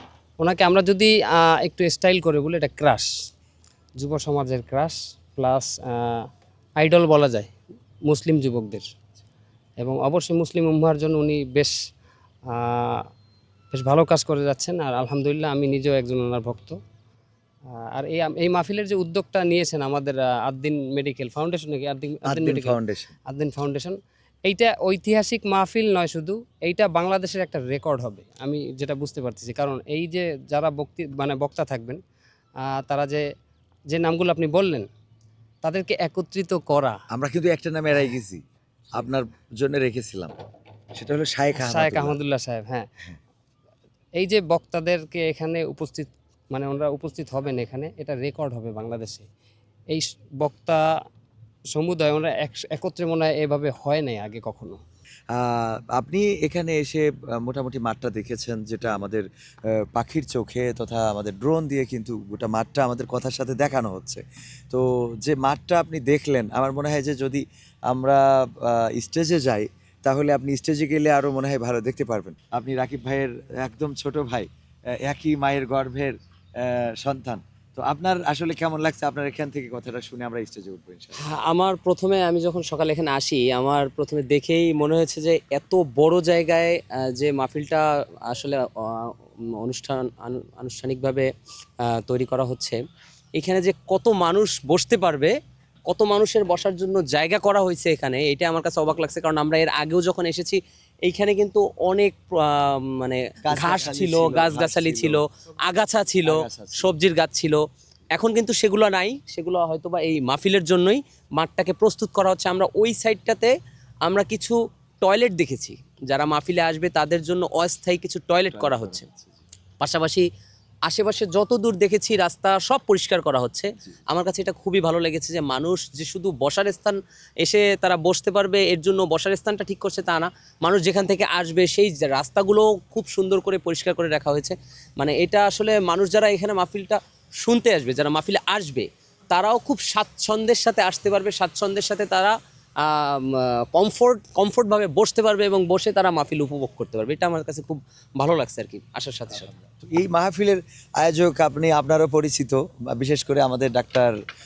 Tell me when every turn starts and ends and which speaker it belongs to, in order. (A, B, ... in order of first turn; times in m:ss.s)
0:00.4-0:03.1 A
0:04.0-0:06.3 A
0:06.8-0:07.5 A
0:08.1-0:08.9 A
0:09.8-0:11.8 A
0:12.5-0:13.0 A
0:13.7-0:16.8 A
0:17.7-0:32.0 A
0:22.2-0:23.1 B
0:32.6-0:33.2 A
0:33.9-0:34.9 A
0:35.6-0:37.0 A
0:37.1-0:38.4 B
0:38.9-0:40.3 B
0:41.0-0:42.2 B
0:41.6-0:42.9 A
0:44.2-0:49.3 A
0:49.9-0:50.9 A
0:51.7-0:54.8 A
0:55.3-1:21.2 B
1:21.2-1:31.3 C
1:31.8-1:32.8 C
1:33.4-1:35.4 C
1:35.9-1:47.6 C
1:43.4-1:45.2 B
1:46.2-1:47.0 B
1:48.2-1:53.5 C
1:54.0-1:59.0 C
1:58.5-1:59.4 B
1:59.8-2:00.2 C
2:00.9-2:29.5 C
2:29.3-2:34.1 B